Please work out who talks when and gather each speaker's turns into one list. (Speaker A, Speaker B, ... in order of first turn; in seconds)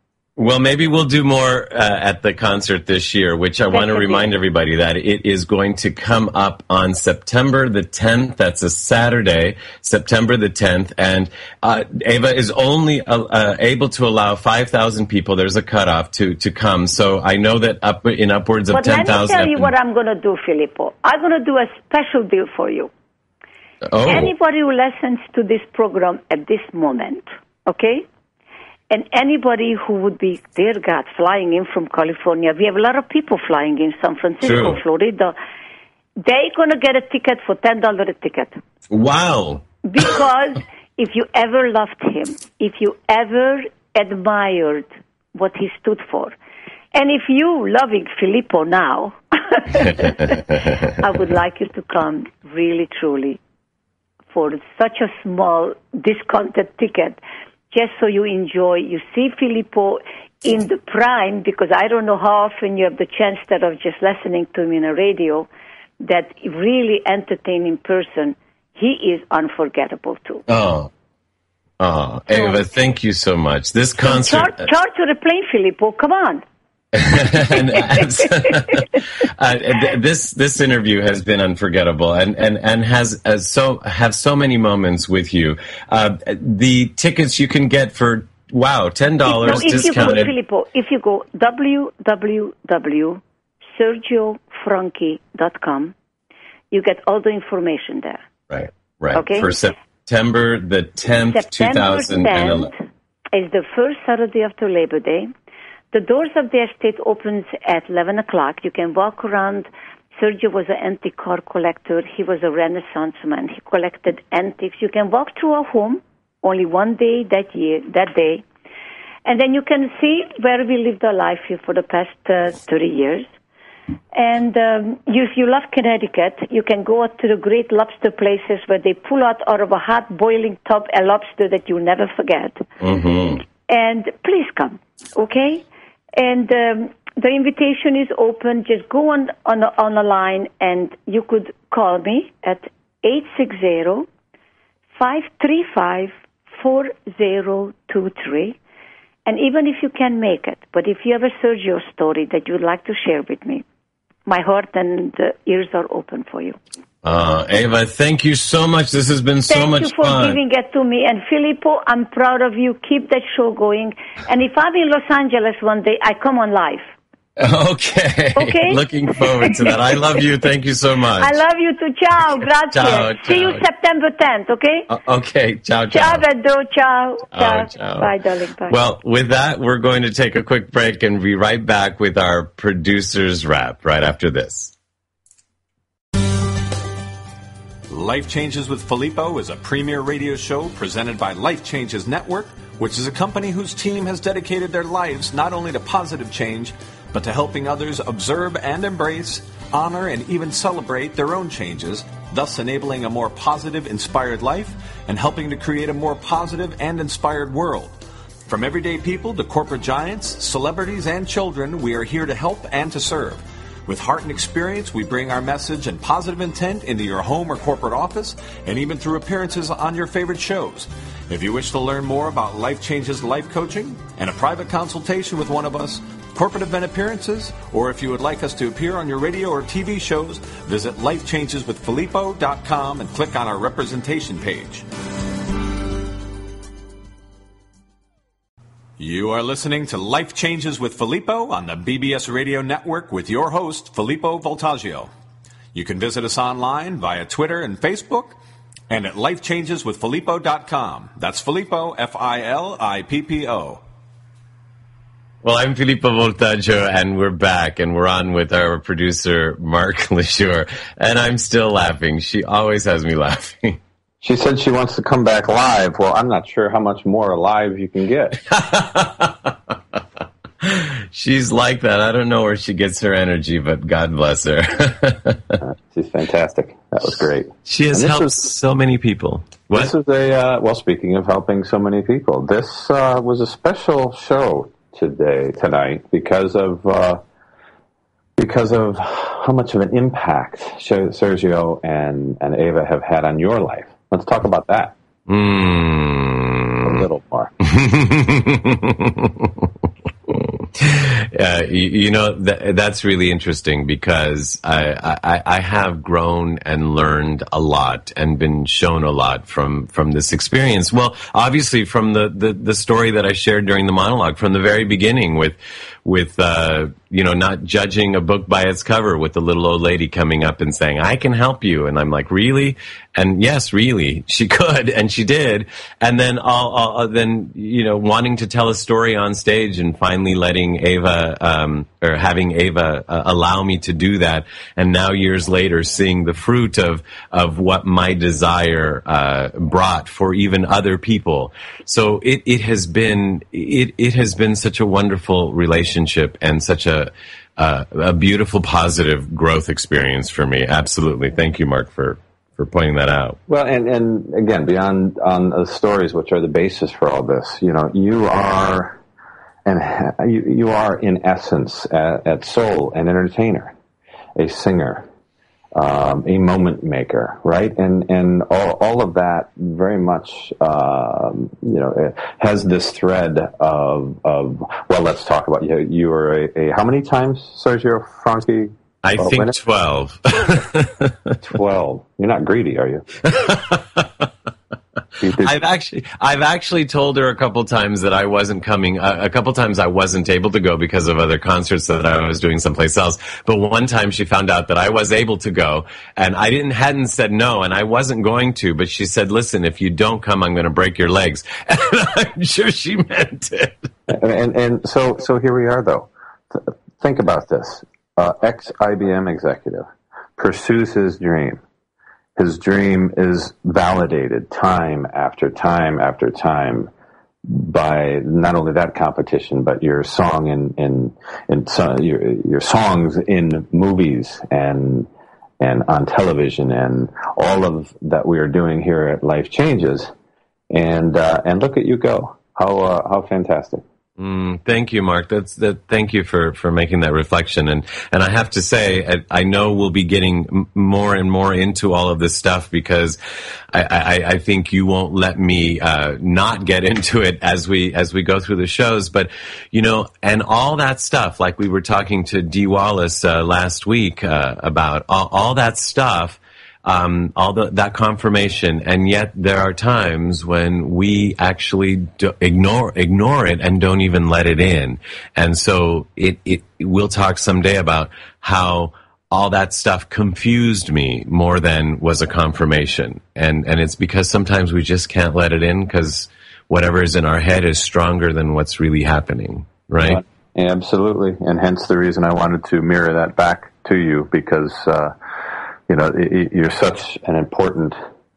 Speaker A: 0.4-19.7, 23.9-24.3, 34.4-34.8, 38.9-39.6, 70.5-70.9, 71.8-74.7, 76.9-90.3, 98.5-102.7, 132.8-133.4, 157.0-160.4, 167.4-171.3, 172.7-173.6, 174.9-176.2, 177.3-178.1, 178.7-184.7, 255.4-263.8, 268.5-269.5, 270.6-275.5, 277.6-279.9, 295.3-297.0, 297.6-299.6, 300.3-353.4, 379.0-381.1, 383.3-384.0, 385.4-403.9, 434.2-443.2, 443.7-480.2
Speaker B: 3.7-4.3, 18.7-22.9, 24.1-28.0, 28.9-35.4, 36.2-38.5, 39.8-46.4, 46.9-53.4, 54.3-57.2, 57.7-65.5, 66.0-70.4, 72.3-72.6, 74.0-76.4, 77.5-78.8, 89.2-93.2, 93.8-95.9, 96.7-98.2, 99.1-99.5, 101.3-105.3, 105.9-118.4, 119.2-123.3, 124.1-132.7, 133.7-135.6, 136.2-144.1, 144.9-148.6, 149.2-153.6, 154.2-156.6, 159.5-166.9, 168.3-169.7, 171.2-174.9, 175.9-178.8
Speaker C: 187.9-234.8, 239.0-245.1, 245.7-248.4, 248.9-253.8
Speaker D: 264.2-268.4, 275.6-278.5, 279.7-287.2, 288.4-294.9, 296.8-297.5, 353.5-359.0, 359.6-363.7, 364.4-365.1, 365.7-379.5, 381.4-383.5, 385.2-385.5, 404.1-411.6, 412.4-416.9, 417.4-425.1, 425.6-430.1, 430.7-433.8, 480.0-485.1, 485.9-488.0